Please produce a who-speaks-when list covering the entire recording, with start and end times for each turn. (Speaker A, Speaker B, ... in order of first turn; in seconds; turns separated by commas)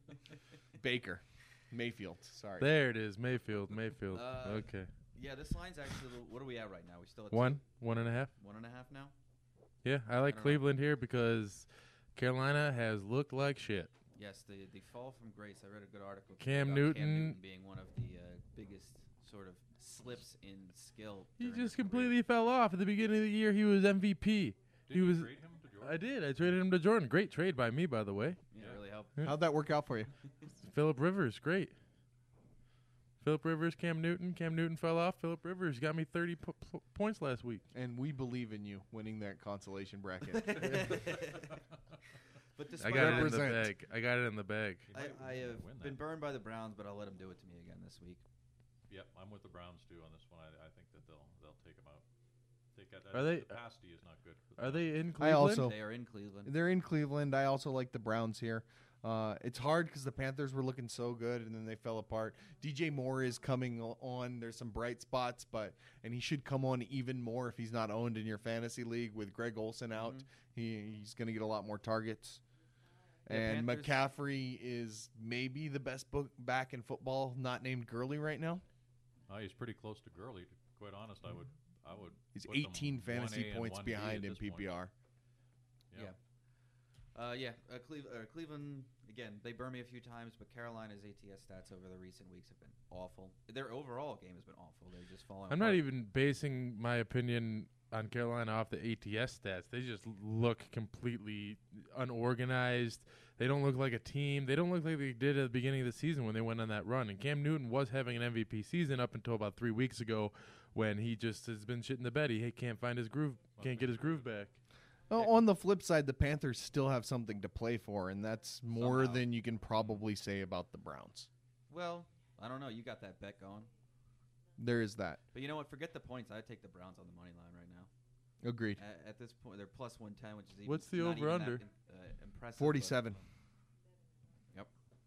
Speaker A: 0.8-2.7, Speaker B: 2.6-4.9, Speaker C: 4.1-7.6, Speaker B: 7.3-8.3, Speaker C: 8.4-9.1, Speaker B: 9.8-13.9, Speaker C: 10.2-10.7, Speaker C: 14.2-22.2, Speaker B: 16.4-17.4, Speaker B: 21.4-28.4, Speaker D: 24.9-26.1, Speaker C: 28.5-29.2, Speaker D: 28.6-28.8, Speaker A: 29.2-30.1, Speaker B: 30.6-31.7, Speaker B: 33.2-37.6, Speaker A: 37.7-41.0, Speaker C: 40.3-41.6, Speaker C: 42.6-43.5, Speaker B: 42.8-44.9, Speaker A: 42.9-43.7, Speaker D: 44.9-46.0, Speaker C: 44.9-48.2, Speaker D: 48.9-52.0, Speaker D: 52.8-55.0, Speaker B: 53.1-53.6, Speaker B: 54.6-55.7, Speaker A: 55.2-55.8, Speaker C: 55.5-56.5, Speaker A: 56.5-72.4, Speaker C: 70.0-70.3, Speaker A: 73.3-78.6, Speaker C: 73.3-74.0, Speaker D: 79.3-84.8, Speaker A: 82.3-84.9, Speaker C: 87.1-95.9, Speaker B: 95.5-114.6, Speaker D: 113.6-114.3, Speaker A: 115.1-121.3, Speaker C: 118.7-119.3, Speaker C: 121.7-123.7, Speaker A: 124.6-125.2, Speaker C: 125.3-127.9, Speaker A: 128.4-128.8, Speaker C: 128.8-133.2, Speaker B: 130.7-131.6, Speaker A: 132.6-133.2